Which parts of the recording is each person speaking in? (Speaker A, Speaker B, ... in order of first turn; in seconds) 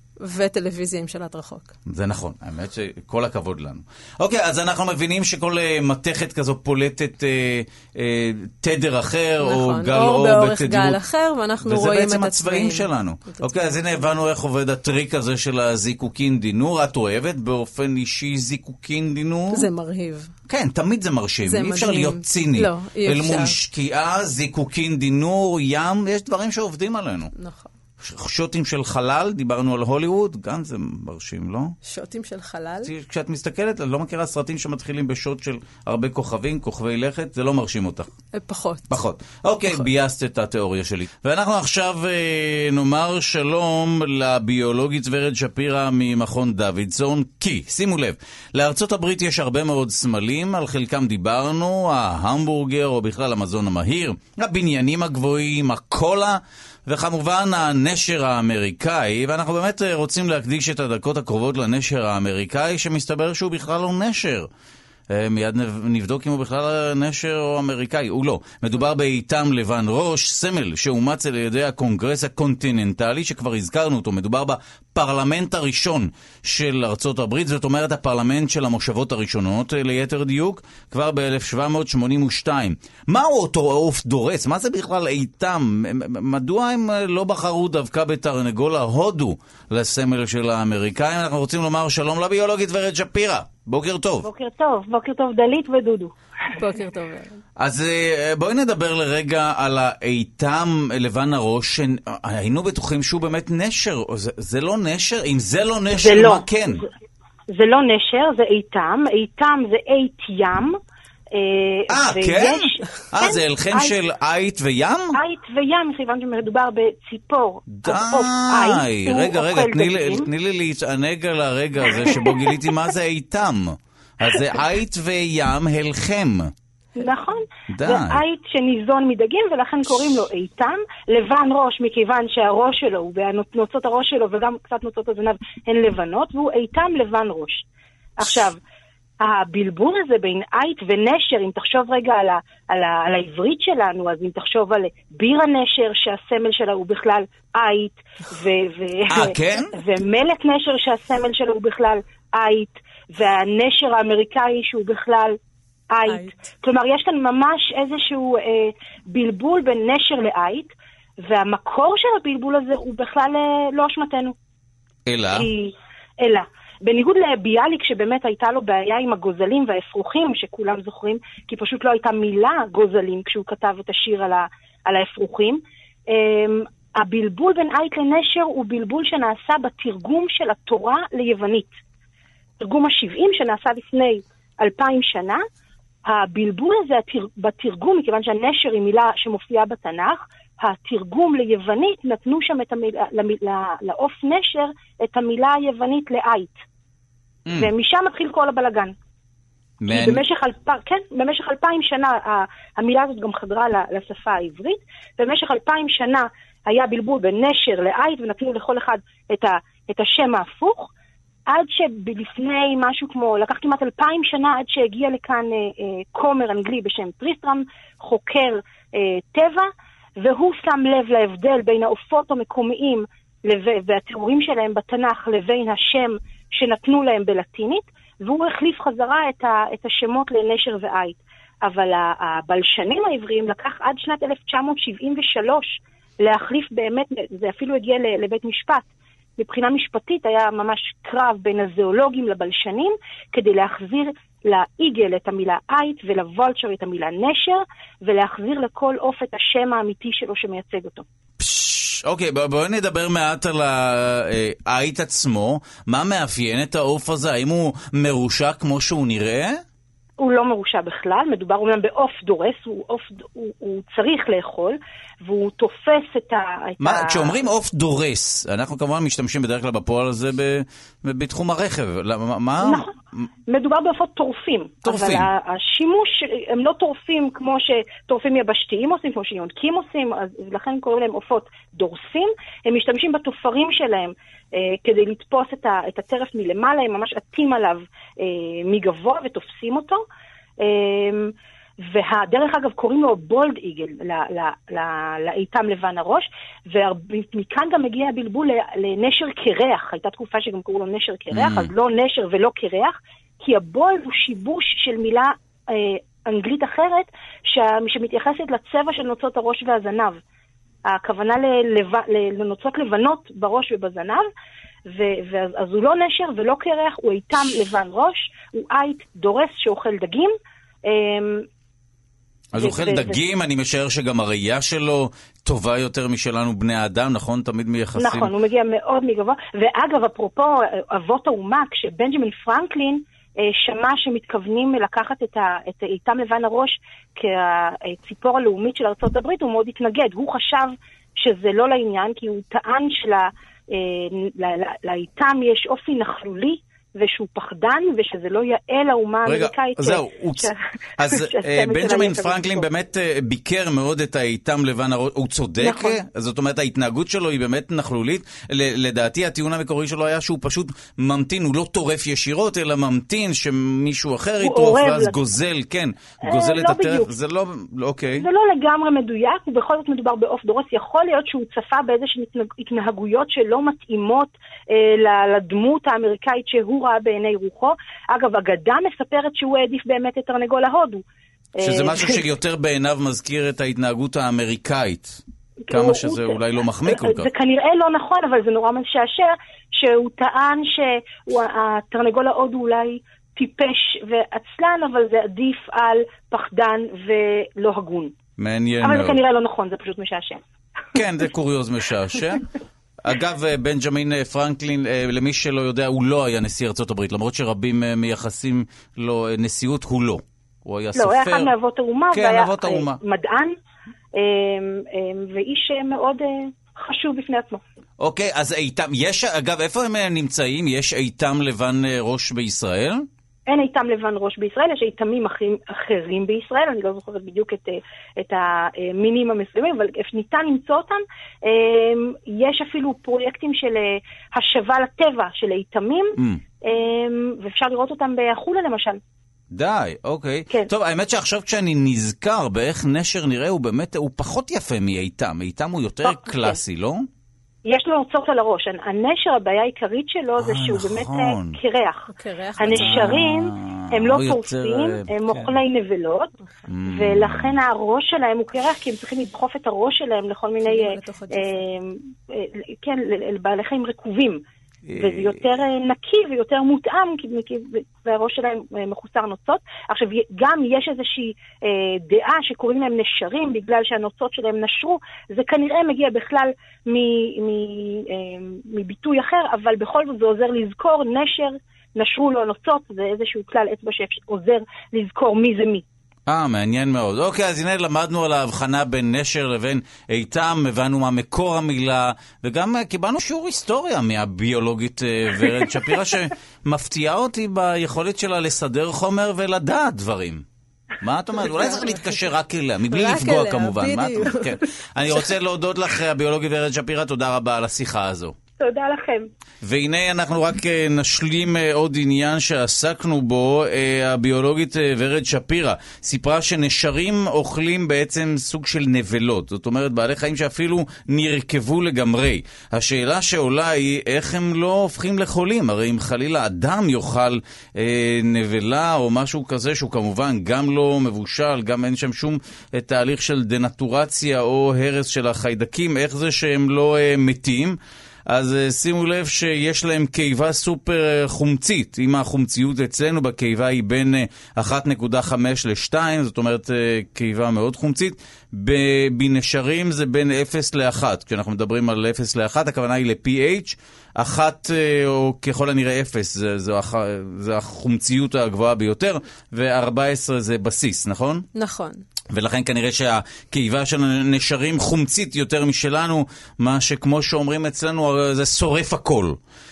Speaker A: 0.2-1.7, 9.4-13.8, 19.5-20.3, 21.4-23.5, 27.4-27.7, 31.9-32.9, 38.4-39.0, 96.6-97.4, 452.1-453.2, 460.6-461.6, 502.9-504.5, 561.5-562.0
Speaker B: 1.9-11.0, 11.6-19.7, 20.5-27.3, 28.0-31.8, 32.9-38.1, 38.9-64.5, 65.1-94.3, 97.6-106.8, 111.9-115.2, 117.7-126.5, 127.7-128.2, 149.1-149.7, 165.1-165.5, 197.5-197.7, 199.8-200.2, 251.4-259.6, 266.8-273.2, 274.9-275.3, 301.3-301.7, 322.5-328.3, 349.2-368.3, 381.6-387.3, 398.4-399.2, 400.9-402.5, 403.0-411.5, 412.1-413.0, 418.0-423.1, 439.5-447.1, 450.4-451.6, 452.7-455.6, 456.7-457.6, 464.9-465.5, 486.3-500.4, 501.0-508.4, 509.6-537.8, 538.3-561.5, 562.3-569.4
Speaker C: 94.2-96.1, 105.9-106.8, 107.5-110.8, 111.3-114.0, 115.2-120.3, 121.9-122.6, 127.0-137.7, 138.2-138.6, 139.2-155.4, 155.9-160.7, 161.2-164.3, 165.3-181.8, 182.6-185.4, 186.1-196.6, 197.6-198.9, 199.9-210.9, 211.5-219.7, 220.2-238.8, 239.4-251.1, 260.2-267.4, 272.6-272.9, 273.5-290.0, 290.6-291.3, 291.9-310.2, 310.9-314.3, 314.9-320.3, 320.9-321.5, 322.6-323.2, 328.0-352.7, 355.6-356.0, 364.4-365.2, 366.2-367.1, 368.2-381.0, 381.6-382.3, 385.7-398.1, 398.8-400.4, 410.9-413.6, 414.2-417.6, 423.5-439.0, 446.1-446.6, 447.6-452.1, 452.6-456.3, 456.9-464.4, 465.0-485.9, 508.6-509.3